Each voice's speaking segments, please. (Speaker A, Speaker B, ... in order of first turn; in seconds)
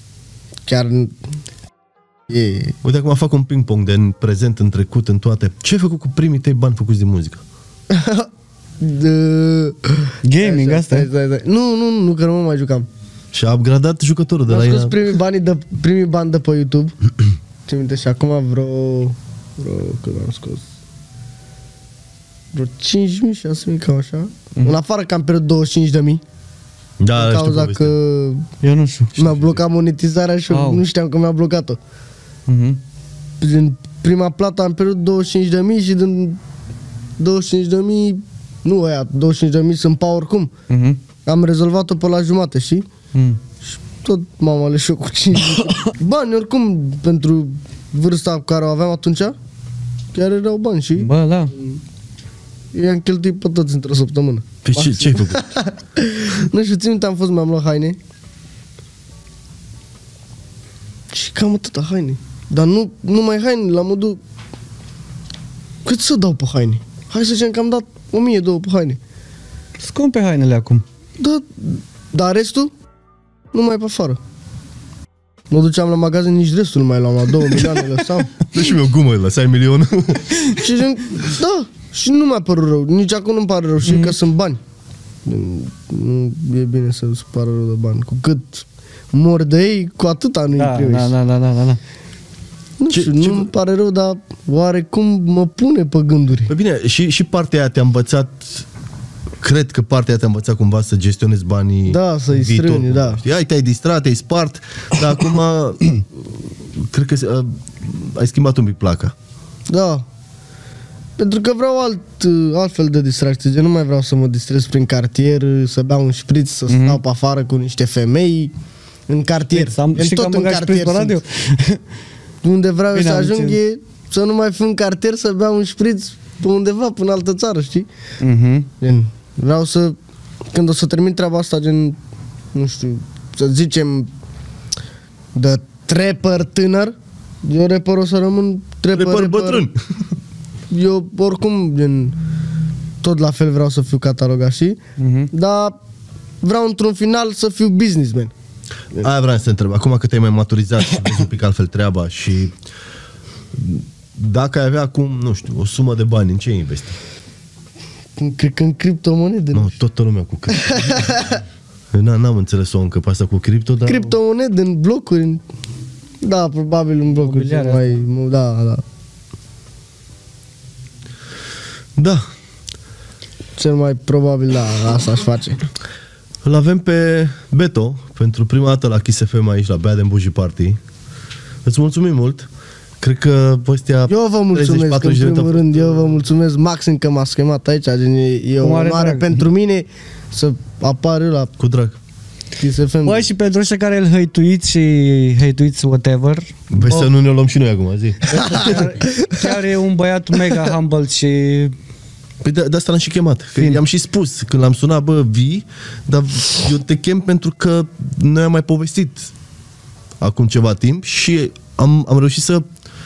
Speaker A: 0.7-1.1, 2.3-2.8, 7.9-8.3, 8.8-12.9, 14.5-16.9, 17.7-20.7, 22.5-26.2, 27.1-28.5, 29.1-31.8, 33.4-36.4, 37.2-40.5, 41.2-42.8, 43.7-49.4, 50.1-51.8, 52.7-58.0, 61.1-64.2, 65.8-69.0, 71.2-72.7, 73.5-74.2, 75.5-78.3, 80.5-84.6, 85.2-91.1, 92.8-96.5, 101.9-103.2, 109.7-110.0, 111.2-118.5, 119.1-121.2, 122.4-127.9, 128.8-129.9, 130.5-132.0, 132.5-134.1, 135.3-139.7, 140.7-142.2, 143.0-144.8, 145.3-145.8, 146.4-148.3, 158.2-159.8, 160.6-161.4, 163.8-165.4, 166.2-168.8, 173.6-175.6, 184.1-191.5, 192.6-193.3, 198.4-199.4
Speaker B: 2.8-7.4, 13.3-15.1, 27.0-27.9, 29.1-29.6, 54.6-55.5, 78.5-80.4, 92.9-93.5, 96.5-98.7, 99.4-109.1, 138.9-139.8, 149.0-152.5, 153.5-156.9, 159.5-161.3, 161.9-164.1, 172.0-172.3, 176.4-180.8, 181.6-182.5, 183.0-186.2, 191.6-192.0, 196.7-198.8, 202.4-209.3, 210.2-212.6
Speaker C: 10.2-11.1, 28.6-29.1, 30.5-30.8, 32.5-32.8, 40.7-41.0, 43.1-43.4, 51.0-51.5, 69.8-70.8, 83.8-84.2, 90.5-91.8, 116.7-117.0, 119.5-121.8, 122.9-123.6, 128.2-128.7, 145.0-145.3, 167.1-168.0, 188.6-189.4, 193.0-197.1, 198.3-201.7